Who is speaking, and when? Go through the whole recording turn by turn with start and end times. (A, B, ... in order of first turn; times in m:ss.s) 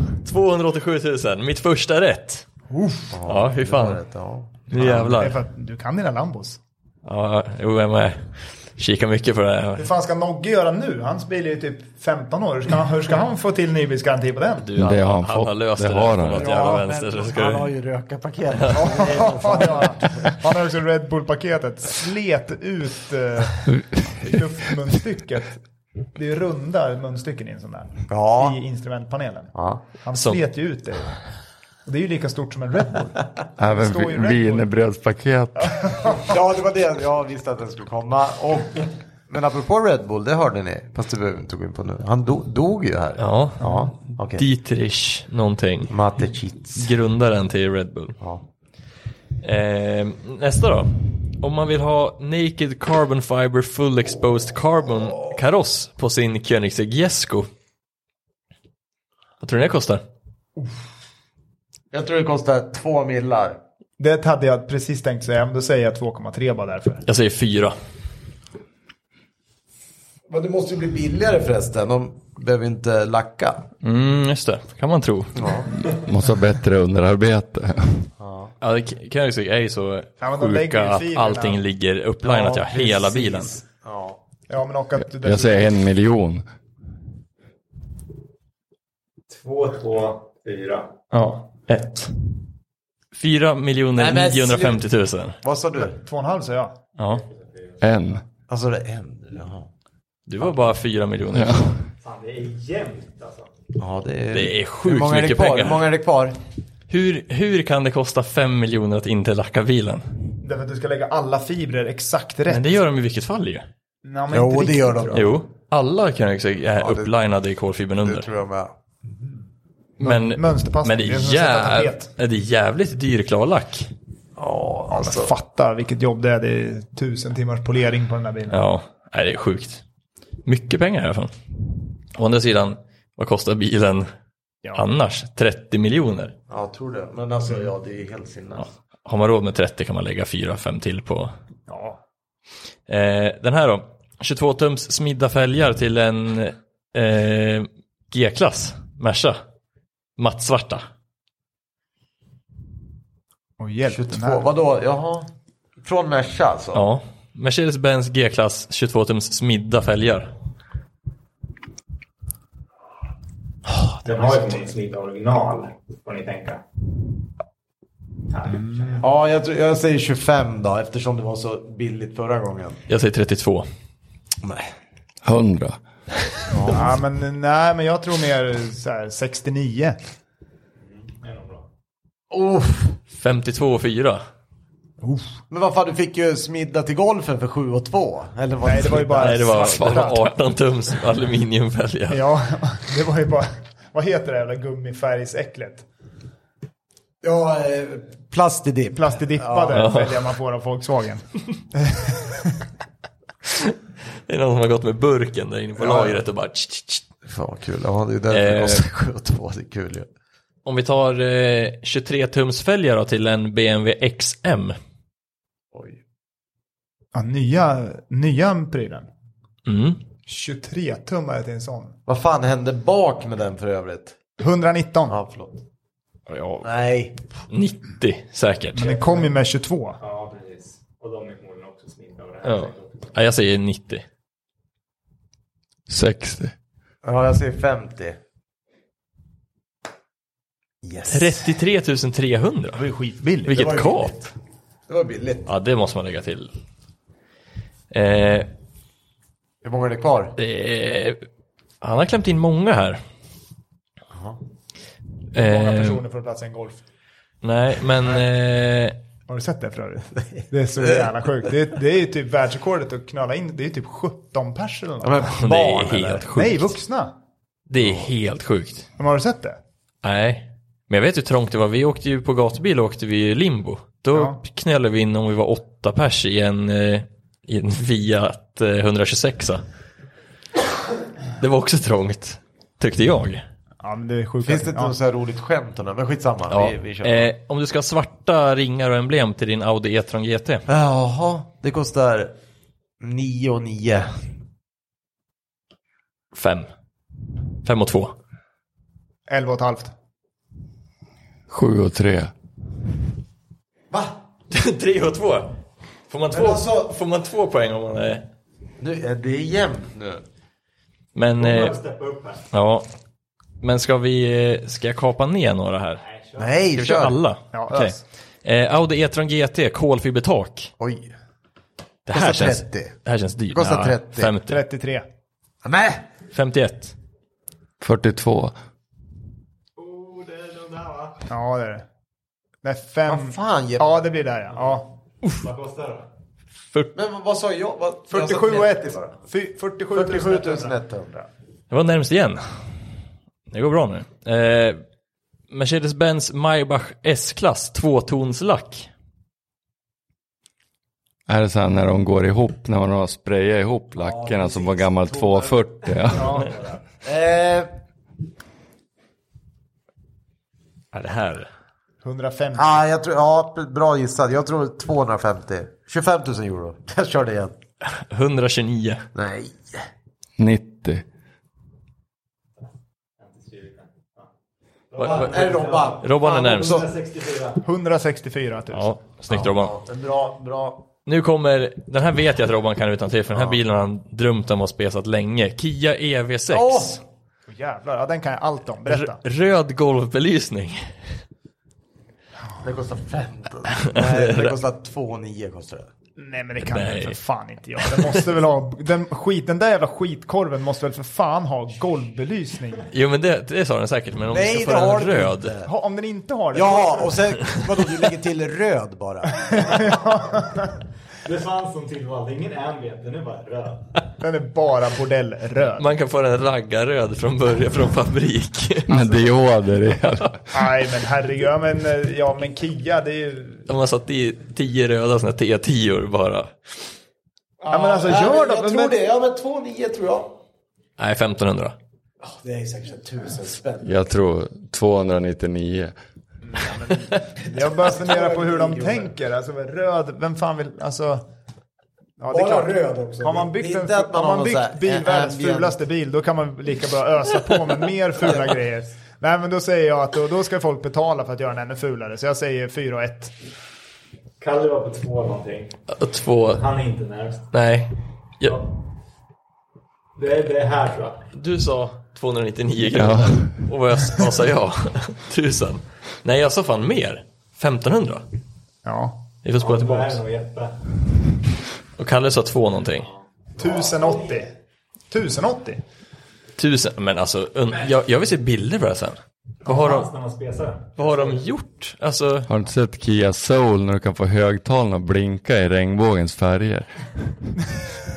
0:00.2-0:02.4 A
0:02.7-0:03.2 B
0:03.1-0:05.3 C
0:03.2-0:04.0 A
0:04.7-0:05.4 A
0:04.8-0:06.6 B
0:07.0-0:08.2 A
0:08.8-0:09.9 A
0:09.8-0:14.7 B
0:14.6-0:17.7 A
0:14.8-0:16.7 D
0:16.3-0:20.4 C
0:18.6-0:18.9 A
0:18.8-0:25.6 B
0:26.1-0:31.2 B
0:28.1-0:28.6 C
0:29.5-0:29.8 C
0:30.1-0:30.4 A
0:31.8-0:34.7 B
0:33.6-0:36.0 D
0:35.6-0:36.3 B
0:36.2-0:44.4 C
0:43.2-0:45.9 A
0:45.9-0:46.9 C
0:46.8-0:48.2 A
0:49.4-0:57.5 A
0:59.4-1:00.0 A
1:01.9-1:03.6 C
1:04.0-1:07.0 B
1:07.0-1:07.7 A
1:10.3-1:13.7 C
1:13.8-1:15.6 A
1:15.4-1:15.7 C
1:15.9-1:18.1 D
1:18.2-1:18.5 C
1:18.6-1:23.6 A
1:20.2-1:21.6 B
1:22.2-1:24.2 C
1:24.5-1:25.8 B
1:25.1-1:26.4 D
1:29.3-1:31.1 E
1:31.1-1:32.1 A
1:33.1-1:35.4 A
1:34.0-1:34.8 C
1:35.4-1:36.0 C
1:35.8-1:36.8 B
1:37.0-1:37.8 E
1:37.8-1:38.2 D
1:38.5-1:39.7 C
1:40.3-1:41.7 A
1:41.3-1:41.7 D
1:42.0-1:43.5 E
1:43.8-1:46.4 C
1:44.3-1:45.9 A
1:46.9-1:50.0 A
1:50.4-1:52.6 B
1:52.5-1:53.6 A
1:54.0-1:55.3 B
1:54.3-1:55.3 C
1:55.1-1:58.3 A
1:56.8-1:57.1 C
1:58.0-1:58.7 C
2:00.0-2:03.9 A
2:00.0-2:02.1 B
2:04.4-2:05.3 C
2:04.9-2:08.6 B
2:08.5-2:09.8 A
2:10.4-2:11.3 A
2:12.1-2:14.1 A
2:14.7-2:16.3 A
2:16.5-2:18.6 C
2:19.0-2:21.3 A
2:21.7-2:22.0 B
2:22.9-2:29.4 A
2:30.2-2:30.8 A
2:33.6-2:34.4 B
2:33.9-2:35.3 C
2:35.8-2:36.8 C
2:36.7-2:40.3 A
2:43.7-2:44.4 C
2:44.0-2:46.6 E
2:48.3-2:49.1 E
2:48.5-2:49.0 B
2:49.0-2:52.8 C
2:52.9-2:53.7 A
2:54.4-2:54.7 C
2:55.2-2:55.8 D
2:56.5-2:57.0 C
2:56.7-3:00.0 B
3:00.8-3:01.6 E
3:02.3-3:03.0 C
3:03.1-3:04.2 A
3:05.0-3:05.4 B
3:05.5-3:10.1 C
3:08.6-3:10.3 B
3:09.2-3:12.2 A
3:12.1-3:15.8 B
3:17.2-3:19.8 C
3:18.9-3:21.2 B
3:19.7-3:20.3 A
3:21.7-3:22.5 B
3:24.3-3:27.0 A
3:25.8-3:26.1 B
3:27.2-3:30.1 C
3:28.3-3:28.8 A
3:30.6-3:34.8 A
3:35.7-3:36.0 C
3:37.1-3:39.1 B
3:39.6-3:40.0 A
3:40.3-3:42.0 B
3:42.0-3:44.1 C
3:44.4-3:45.2 B
3:45.1-3:45.6 C
3:46.3-3:46.7 A
3:46.6-3:47.2 C
3:47.5-3:48.9 A
3:48.7-3:50.0 B
3:48.8-3:49.3 E
3:50.0-3:53.1 E
3:52.4-3:54.0 A
3:55.9-3:56.5 D
3:57.0-3:58.2 C
4:00.8-4:01.5 C
4:01.1-4:02.8 A
4:02.7-4:03.6 B
4:03.5-4:04.2 A
4:03.5-4:04.3 C
4:04.9-4:05.5 C
4:05.5-4:06.5 A
4:07.9-4:08.5 A
4:09.6-4:10.3 C
4:10.4-4:11.2 A
4:11.8-4:13.0 A
4:14.1-4:14.4 C
4:15.3-4:16.8 B
4:15.3-4:16.0 A
4:17.4-4:19.0 A
4:19.3-4:25.3 B
4:25.0-4:26.2 C
4:25.3-4:26.7 A
4:26.3-4:27.1 B
4:27.7-4:28.9 A
4:27.8-4:28.1 C
4:29.0-4:29.6 B
4:30.0-4:39.6 A
4:34.1-4:34.4 B
4:41.4-4:43.4 A
4:43.8-4:44.9 B
4:44.4-4:47.3 C
4:46.5-4:50.6 A
4:50.7-4:52.3 C
4:53.0-4:54.1 C
4:56.3-4:56.7 A
4:57.6-4:58.1 A
4:59.3-4:59.9 B
5:01.5-5:02.3 D
5:03.9-5:04.2 C
5:04.5-5:05.5 A
5:06.1-5:08.2 A
5:06.3-5:06.9 C
5:08.8-5:10.2 C
5:11.1-5:11.8 A
5:11.4-5:12.5 E
5:12.5-5:12.9 A
5:13.6-5:16.0 A
5:16.0-5:16.6 E
5:16.4-5:17.2 C
5:16.7-5:20.7 A
5:17.5-5:18.0 B
5:20.8-5:21.1 C
5:22.1-5:24.6 A
5:22.1-5:22.9 C
5:23.5-5:24.3 C
5:24.4-5:25.0 B
5:25.6-5:26.0 C
5:26.3-5:26.9 A
5:27.8-5:28.5 D
5:29.8-5:31.2 E
5:31.3-5:31.8 B
5:32.6-5:34.9 B
5:33.1-5:33.9 C
5:35.4-5:36.1 E
5:36.9-5:39.1 C
5:38.1-5:41.3 B
5:39.9-5:41.1 C
5:41.7-5:42.4 A
5:43.5-5:44.8 A
5:45.5-5:48.9 A
5:51.3-5:56.4 D
5:54.0-5:57.7 C
5:56.1-5:56.5 B
6:00.9-6:01.5 A
6:02.0-6:02.8 B
6:02.6-6:07.6 C
6:07.8-6:09.0 A
6:09.1-6:09.8 C
6:10.4-6:11.0 D
6:13.2-6:14.3 E
6:14.9-6:17.6 E
6:15.0-6:16.8 A
6:15.2-6:16.8 C
6:17.6-6:18.9 B
6:18.7-6:19.7 A
6:19.3-6:20.9 C
6:21.0-6:27.0 A
6:23.3-6:23.6 C
6:26.5-6:27.0 C
6:27.5-6:29.2 B
6:28.8-6:30.9 A
6:32.6-6:35.9 C
6:33.8-6:34.6 A
6:36.2-6:42.9 B
6:36.7-6:37.2 A
6:37.9-6:38.2 A
6:42.9-6:45.5 A
6:44.3-6:45.7 C
6:45.6-6:47.2 B
6:46.5-6:49.5 C
6:49.4-6:50.7 B
6:49.5-6:50.6 E
6:51.2-6:53.9 E
6:54.2-6:55.9 B
6:55.8-6:58.9 A
6:58.9-7:00.7 D
7:00.5-7:03.7 B
7:03.7-7:06.7 A
7:07.6-7:10.4 C
7:07.7-7:09.0 B
7:11.0-7:11.8 A
7:12.2-7:14.0 C
7:13.8-7:15.9 D
7:16.6-7:21.3 B
7:16.7-7:19.1 C
7:22.2-7:33.3 B
7:22.3-7:25.8 C
7:34.4-7:35.8 E
7:35.9-7:36.6 A
7:36.5-7:37.5 E
7:37.5-7:38.6 A
7:38.4-7:38.7 E
7:40.2-7:41.3 E
7:41.3-7:48.2 A
7:42.9-7:43.5 D
7:48.8-7:49.2 B
7:49.4-7:50.2 A
7:49.6-7:50.8 E
7:52.0-7:53.1 A
7:53.6-7:54.5 B
7:53.8-7:54.3 E
7:55.1-7:55.8 B
7:56.6-8:00.1 A
7:59.6-8:01.4 E
8:01.0-8:02.5 A
8:02.5-8:06.9 D